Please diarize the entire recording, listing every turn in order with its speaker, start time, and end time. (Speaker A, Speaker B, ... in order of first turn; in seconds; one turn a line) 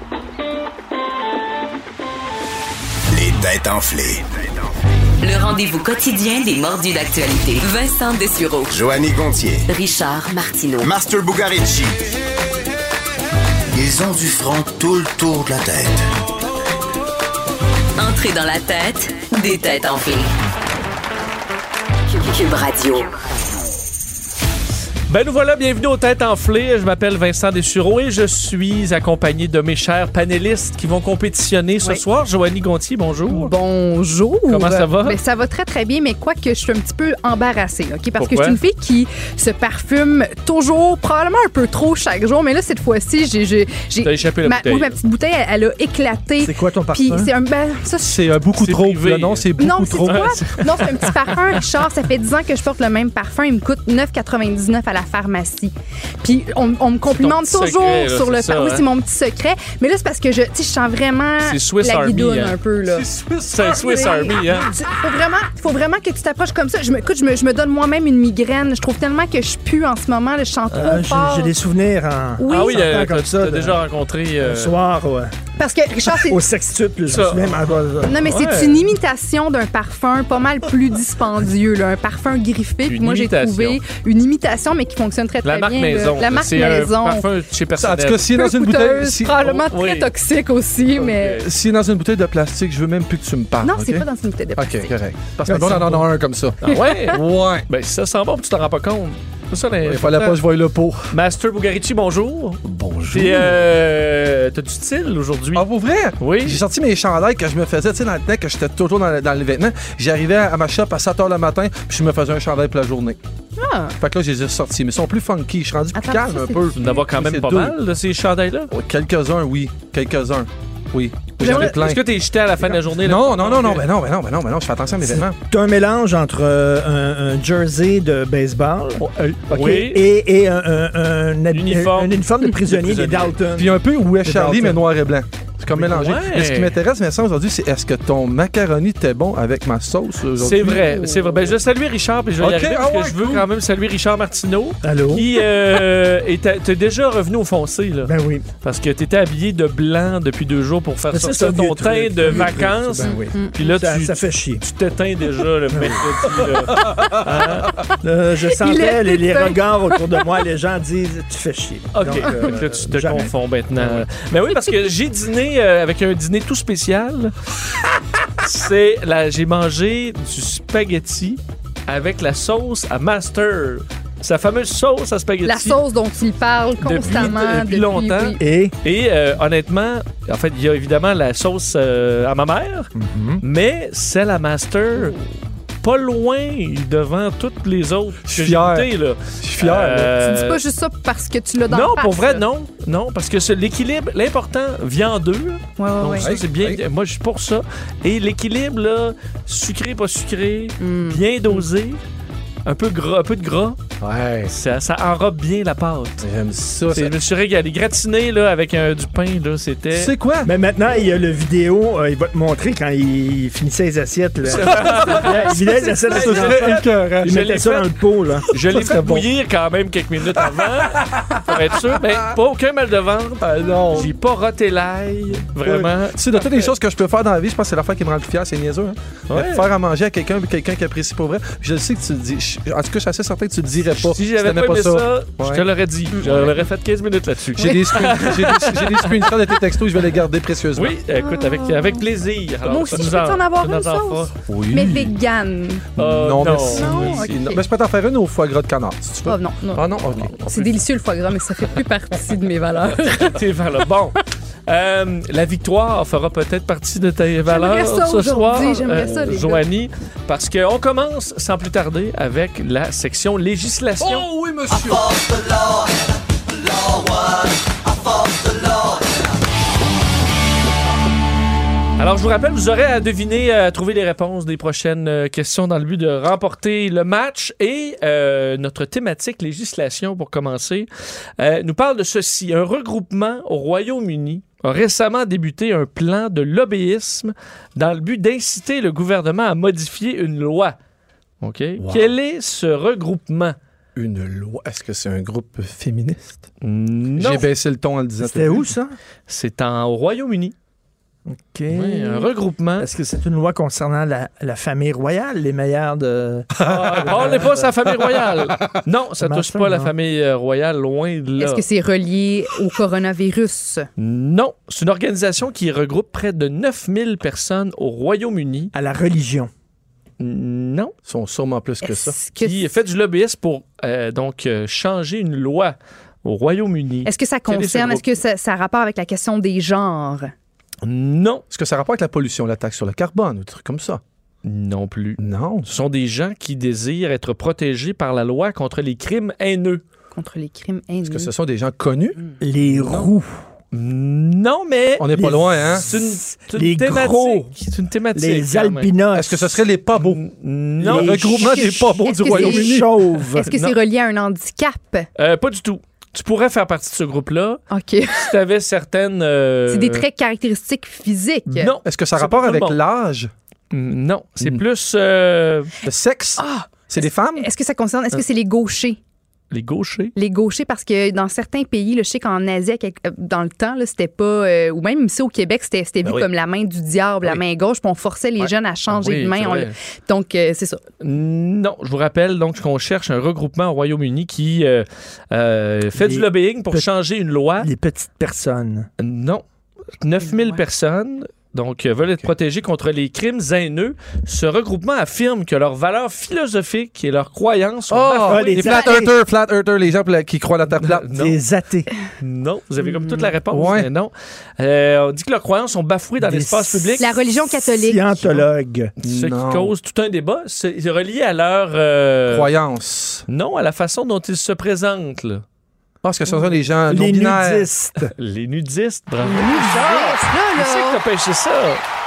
Speaker A: 3.1-4.2
Speaker B: 5.2-8.8
Speaker A: 8.7-9.6
Speaker B: 9.7-11.0
Speaker A: 10.8-12.0
Speaker A: 13.7-15.9
Speaker B: 18.0-20.3
Speaker B: 22.1-23.1
Speaker C: 25.1-33.5
Speaker D: 33.3-48.4
Speaker C: 34.5-35.2
Speaker C: 38.2-38.6
Speaker C: 44.0-45.0
Speaker E: 46.4-47.3
Speaker F: 48.0-50.4
Speaker C: 48.6-49.5
Speaker D: 49.6-71.5
Speaker C: 50.1-51.6
Speaker C: 57.0-58.9
Speaker C: 61.4-62.5
Speaker F: 62.8-64.1
Speaker C: 63.5-64.7
Speaker E: 70.7-73.8
Speaker D: 72.4-72.9
Speaker C: 72.5-74.7
Speaker E: 74.4-75.3
Speaker D: 75.6-76.4
Speaker E: 76.1-78.5
Speaker C: 77.1-78.8
Speaker D: 78.0-87.3
Speaker C: 82.9-83.8
Speaker C: 85.4-88.3
Speaker F: 87.8-89.4
Speaker D: 88.3-91.4
Speaker C: 89.5-90.1
Speaker C: 91.0-91.5
Speaker F: 91.4-97.7
Speaker D: 93.6-95.0
Speaker E: 95.5-96.1
Speaker C: 96.6-100.4
Speaker F: 99.8-101.1
Speaker C: 101.1-105.7
Speaker F: 102.7-103.5
Speaker F: 105.5-113.2
Speaker C: 106.2-106.6
Speaker D: 113.6-114.0
Speaker F: 114.0-117.8
Speaker D: 115.9-116.7
Speaker C: 116.7-118.7
Speaker F: 118.7-122.0
Speaker C: 121.4-123.9
Speaker D: 121.4-121.7
Speaker F: 123.0-125.3
Speaker E: 125.0-134.9
Speaker C: 129.0-130.0
Speaker C: 131.5-133.3
Speaker F: 133.6-141.5
Speaker C: 135.7-136.8
Speaker C: 140.4-157.8
Speaker F: 142.4-143.4
Speaker E: 144.8-145.4
Speaker E: 148.0-148.5
Speaker E: 151.1-154.6
Speaker F: 152.2-153.1
Speaker E: 155.7-156.5
Speaker F: 156.7-157.2
Speaker E: 158.0-164.0
Speaker D: 158.4-160.2
Speaker C: 161.9-167.3
Speaker C: 168.4-175.8
Speaker D: 175.4-178.4
Speaker C: 176.8-185.2
Speaker E: 178.4-178.7
Speaker E: 182.9-183.4
Speaker C: 185.8-190.6
Speaker F: 188.2-188.9
Speaker F: 189.4-190.1
Speaker D: 190.2-192.4
Speaker C: 191.7-202.0
Speaker D: 195.8-196.3
Speaker F: 196.1-196.8
Speaker D: 200.8-201.6
Speaker C: 202.6-203.8
Speaker F: 204.0-204.5
Speaker C: 204.5-206.2
Speaker F: 206.2-207.1
Speaker C: 206.9-210.1
Speaker F: 209.9-210.5
Speaker E: 210.4-219.0
Speaker C: 214.4-217.9
Speaker F: 214.7-217.5
Speaker C: 218.5-226.7
Speaker F: 218.5-219.2
Speaker F: 220.8-221.9
Speaker F: 223.4-224.1
Speaker F: 225.7-235.6
Speaker C: 229.3-229.7
Speaker C: 234.0-239.5
Speaker F: 236.2-236.6
Speaker F: 237.6-241.0
Speaker D: 237.6-238.6
Speaker C: 240.8-244.4
Speaker D: 241.1-242.0
Speaker D: 242.6-245.8
Speaker F: 244.5-245.1
Speaker C: 246.0-247.3
Speaker F: 246.0-250.7
Speaker D: 246.6-247.6
Speaker D: 249.2-253.4
Speaker C: 253.1-264.3
Speaker D: 257.4-259.6
Speaker F: 264.0-265.2
Speaker C: 272.0-290.8
Speaker C: 291.4-293.6
Speaker F: 291.8-292.1
Speaker F: 293.9-296.4
Speaker C: 296.6-297.5
Speaker F: 297.2-298.7
Speaker E: 298.2-298.9
Speaker C: 299.3-300.5
Speaker E: 301.2-307.7
Speaker C: 301.7-302.9
Speaker F: 306.6-307.6
Speaker C: 306.6-311.6
Speaker E: 309.2-309.9
Speaker D: 311.4-313.9
Speaker C: 314.0-318.7
Speaker E: 318.7-319.5
Speaker C: 320.2-320.9
Speaker F: 321.1-322.1
Speaker D: 321.8-322.7
Speaker C: 322.4-328.1
Speaker D: 327.1-330.3
Speaker C: 330.8-331.4
Speaker F: 331.5-334.0
Speaker C: 334.4-339.8
Speaker F: 335.2-335.7
Speaker D: 340.1-341.3
Speaker F: 341.1-342.2
Speaker E: 342.4-343.4
Speaker F: 342.8-343.1
Speaker C: 343.7-348.9
Speaker F: 345.0-345.9
Speaker E: 345.1-347.5
Speaker E: 348.1-349.6
Speaker F: 349.1-350.2
Speaker C: 349.9-351.7
Speaker F: 350.8-352.9
Speaker E: 350.8-351.7
Speaker D: 351.2-352.8
Speaker E: 352.2-353.5
Speaker D: 353.3-355.1
Speaker C: 353.4-353.8
Speaker C: 355.1-360.0
Speaker D: 357.7-358.3
Speaker D: 359.7-361.7
Speaker C: 361.5-362.8
Speaker F: 361.8-363.3
Speaker C: 363.7-365.7
Speaker F: 365.8-367.5
Speaker D: 366.4-369.0
Speaker C: 369.5-370.1
Speaker D: 370.1-380.8
Speaker C: 378.9-379.7
Speaker C: 381.0-387.7
Speaker E: 385.9-386.9
Speaker E: 387.6-388.9
Speaker C: 389.0-389.4
Speaker C: 390.0-398.7
Speaker D: 390.3-390.6
Speaker F: 397.9-401.1
Speaker E: 398.2-399.1
Speaker C: 400.7-401.4
Speaker E: 401.0-401.9
Speaker C: 402.2-407.1
Speaker D: 402.8-403.3
Speaker F: 403.5-403.9
Speaker E: 406.2-408.9
Speaker D: 407.0-408.4
Speaker C: 409.0-412.5
Speaker F: 409.0-409.7
Speaker F: 412.3-413.2
Speaker C: 413.3-415.4
Speaker F: 416.0-417.7
Speaker E: 416.9-418.1
Speaker C: 418.1-421.8
Speaker D: 419.2-421.0